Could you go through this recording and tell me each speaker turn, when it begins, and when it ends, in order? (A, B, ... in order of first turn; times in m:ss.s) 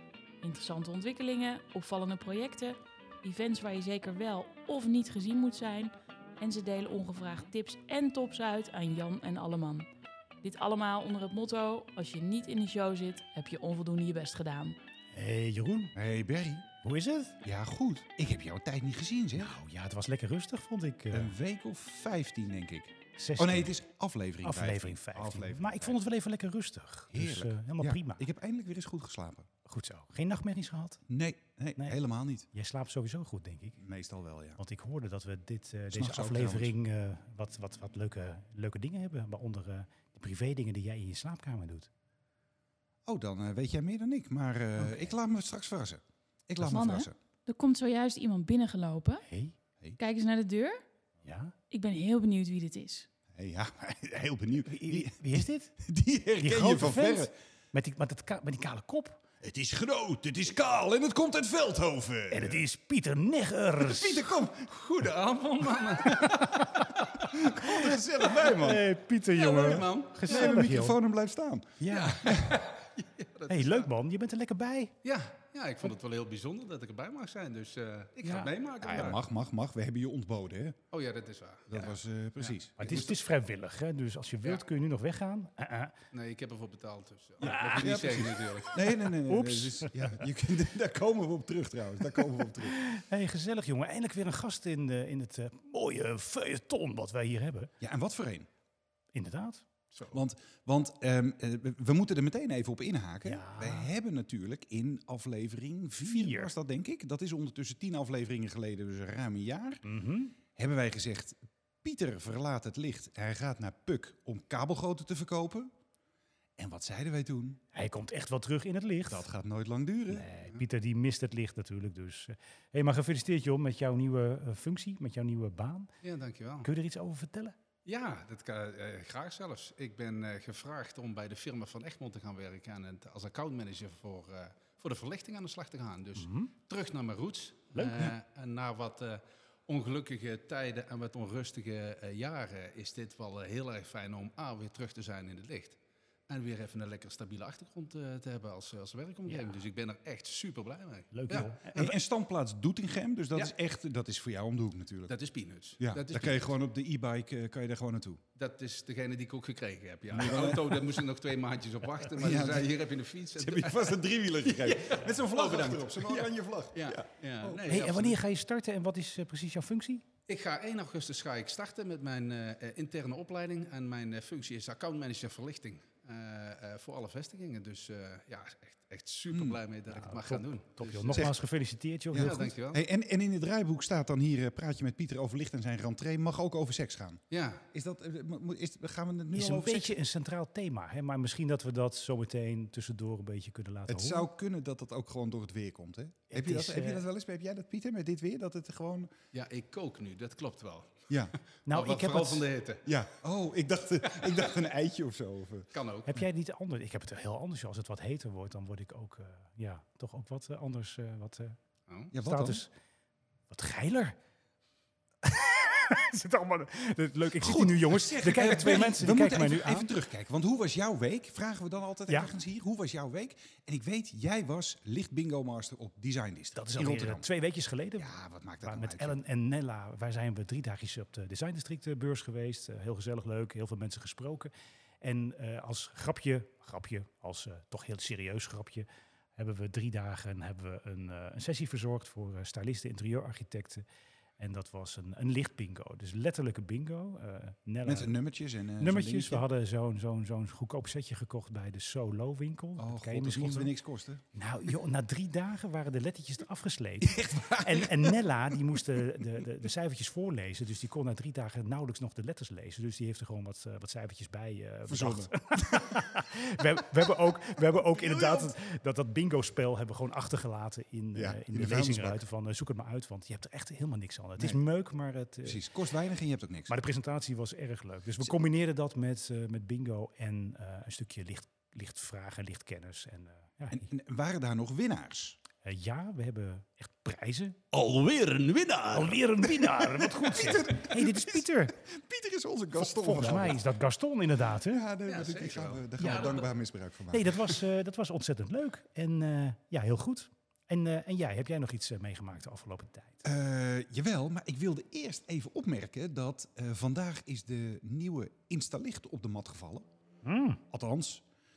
0:00.4-0:09.9 A
0:10.4-0:14.8 A
0:15.1-0:15.9 B
0:15.9-0:16.7 C
0:16.8-0:17.4 B
0:17.4-0:19.6 C
0:19.4-0:21.3 B
0:21.1-0:26.0 C
0:23.2-0:23.7 B
0:24.4-0:28.2 B
0:27.1-0:29.5 C
0:29.6-0:31.0 B
0:31.1-0:32.5 C
0:32.5-0:33.8 B
0:33.8-0:34.6 C
0:34.6-0:41.9 B
0:35.9-0:36.8 C
0:43.0-0:47.1 C
0:44.8-0:45.1 B
0:46.6-0:49.2 A
0:49.3-0:49.6 B
0:50.0-0:50.8 A
0:51.2-0:51.5 B
0:51.7-0:53.1 A
0:53.3-0:57.3 C
0:54.6-0:55.7 B
0:56.4-0:59.2 B
0:59.4-1:02.6 C
1:02.3-1:04.3 B
1:03.8-1:04.9 C
1:04.6-1:07.2 D
1:06.0-1:06.8 B
1:07.3-1:07.8 B
1:07.3-1:08.8 C
1:08.3-1:11.0 B
1:09.3-1:10.4 D
1:10.2-1:12.6 C
1:11.8-1:12.4 B
1:12.0-1:13.9 D
1:13.5-1:14.9 B
1:15.0-1:19.2 D
1:18.2-1:18.5 B
1:18.8-1:20.8 C
1:20.9-1:22.0 D
1:21.7-1:23.2 C
1:22.8-1:25.9 B
1:26.1-1:28.9 D
1:27.4-1:30.2 B
1:27.4-1:32.8 C
1:32.1-1:37.7 B
1:37.8-1:38.5 C
1:39.1-1:39.6 B
1:39.9-1:40.2 D
1:40.1-1:49.8 C
1:43.2-1:43.9 B
1:46.0-1:46.5 B
1:49.8-1:50.3 B
1:50.5-1:55.7 C
1:56.6-1:57.6 C
1:57.7-1:59.3 B
1:59.1-2:00.3 C
2:00.1-2:05.9 B
2:06.0-2:06.7 D
2:06.6-2:07.6 B
2:07.8-2:31.9 D
2:16.2-2:16.5 B
2:29.3-2:29.6 B
2:31.1-2:31.9 B
2:31.6-2:35.2 C
2:35.1-2:36.5 D
2:35.8-2:38.2 C
2:38.4-2:48.2 D
2:40.1-2:41.0 C
2:42.1-2:42.8 C
2:43.3-2:47.6 C
2:47.6-2:50.0 B
2:50.3-3:01.3 D
2:59.3-2:59.6 C
2:59.9-3:02.5 B
3:02.1-3:10.0 C
3:02.1-3:02.8 D
3:07.3-3:07.6 D
3:09.3-3:14.3 B
3:13.9-3:19.1 C
3:16.3-3:17.0 B
3:19.3-3:22.9 D
3:21.1-3:21.3 C
3:21.6-3:22.4 B
3:22.8-3:25.7 C
3:24.1-3:24.5 D
3:25.7-3:26.1 D
3:26.1-3:31.6 B
3:32.1-3:32.6 C
3:32.1-3:32.7 B
3:33.5-3:34.2 B
3:35.2-3:39.9 B
3:37.4-3:47.2 C
3:46.6-4:03.8 B
3:48.0-3:49.2 C
4:04.4-4:08.1 B
4:07.8-4:09.4 C
4:08.8-4:13.7 B
4:12.8-4:14.2 C
4:14.3-4:35.6 B
4:17.0-4:18.2 C
4:24.9-4:26.1 C
4:27.7-4:28.5 C
4:31.1-4:32.2 C
4:35.4-4:36.8 C
4:36.7-4:43.9 B
4:43.7-4:45.4 C
4:45.6-4:47.6 B
4:47.7-4:49.2 D
4:48.9-4:51.8 B
4:49.6-4:53.7 C
4:52.8-4:54.8 B
4:54.5-4:57.6 C
4:55.0-4:56.5 D
4:56.0-4:56.3 B
4:57.1-5:03.2 B
5:03.2-5:09.8 C
5:10.2-5:10.6 B
5:10.7-5:11.2 C